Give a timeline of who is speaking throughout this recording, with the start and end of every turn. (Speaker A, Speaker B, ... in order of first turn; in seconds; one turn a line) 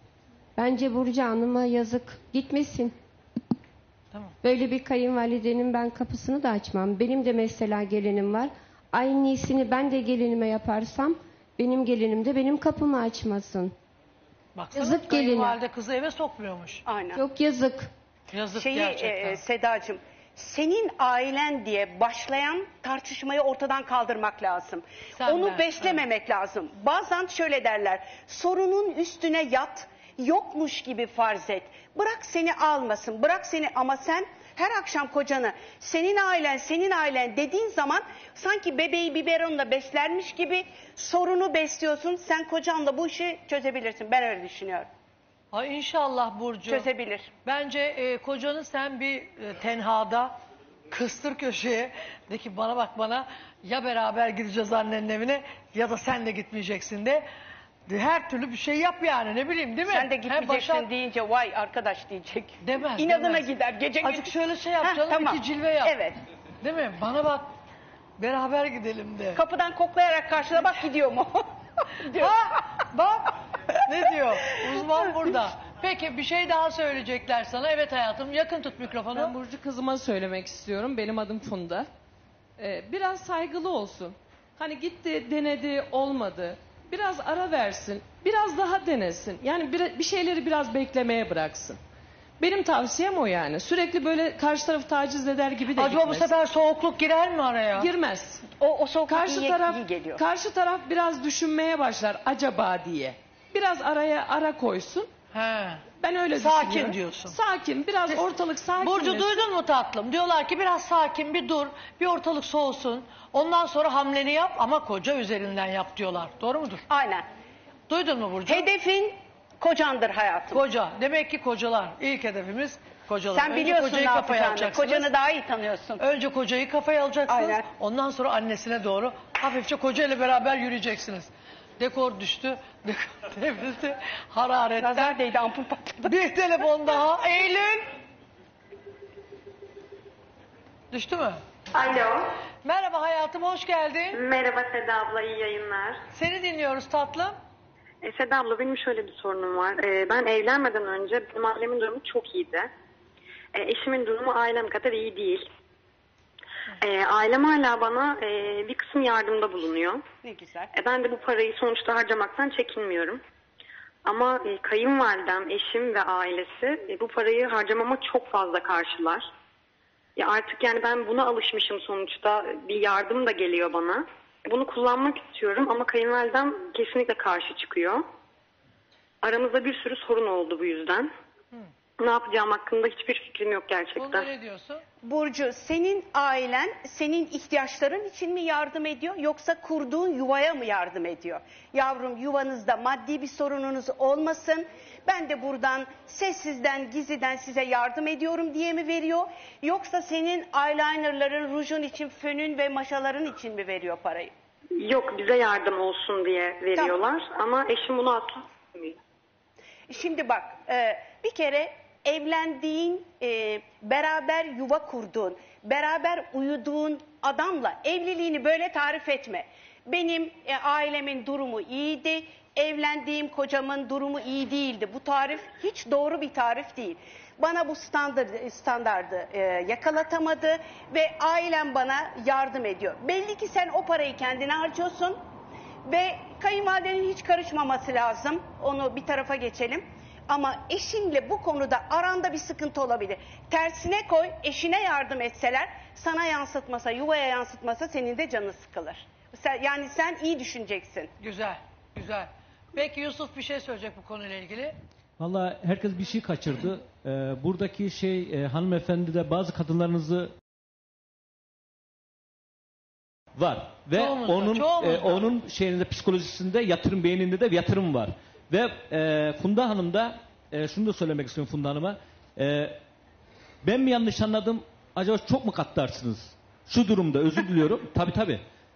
Speaker A: 0.6-2.9
Speaker A: 4.4-13.7
Speaker B: 14.5-16.8
Speaker A: 14.7-15.6
Speaker C: 16.9-17.2
Speaker A: 17.1-17.9
Speaker B: 18.3-19.4
Speaker C: 18.5-44.9
Speaker B: 25.1-26.0
Speaker B: 45.5-46.9
Speaker C: 46.7-47.3
Speaker B: 47.4-50.4
Speaker B: 50.9-57.2
Speaker B: 57.9-60.9
Speaker C: 59.9-66.1
Speaker B: 62.6-63.5
Speaker B: 64.0-66.0
Speaker B: 66.6-67.5
Speaker B: 68.2-69.4
Speaker C: 69.3-71.5
Speaker C: 72.0-72.3
Speaker B: 72.1-73.3
Speaker B: 73.9-79.3
Speaker D: 79.1-81.9
Speaker D: 82.6-91.8
Speaker D: 92.4-96.3
Speaker B: 95.7-97.9
Speaker D: 97.8-98.4
Speaker C: 98.6-100.2
Speaker D: 99.1-105.1
Speaker B: 105.3-107.4
Speaker D: 106.0-109.4
Speaker B: 108.8-116.8
Speaker C: 116.9-117.2
Speaker B: 117.9-118.7
Speaker C: 118.5-120.6
Speaker B: 120.5-125.1
Speaker C: 123.3-126.0
Speaker B: 126.0-135.2
Speaker C: 127.3-127.7
Speaker C: 134.8-136.2
Speaker B: 136.0-137.9
Speaker B: 140.9-141.4
Speaker E: 141.8-142.2
Speaker B: 142.6-144.2
Speaker E: 144.1-146.0
Speaker B: 146.1-147.3
Speaker E: 148.0-152.7
Speaker E: 153.5-155.5
Speaker E: 156.8-160.0
Speaker C: 160.2-160.7
Speaker E: 160.7-163.2
Speaker E: 164.0-169.3
Speaker E: 170.2-178.0
Speaker E: 179.2-181.1
Speaker E: 182.0-184.3
Speaker B: 184.0-184.8
Speaker C: 185.0-204.3
Speaker E: 204.8-209.0
Speaker C: 209.9-235.2
Speaker C: 235.8-251.1
Speaker B: 251.2-254.8
Speaker F: 255.2-260.3
Speaker F: 263.4-272.8
Speaker B: 263.9-265.3
Speaker F: 273.6-278.4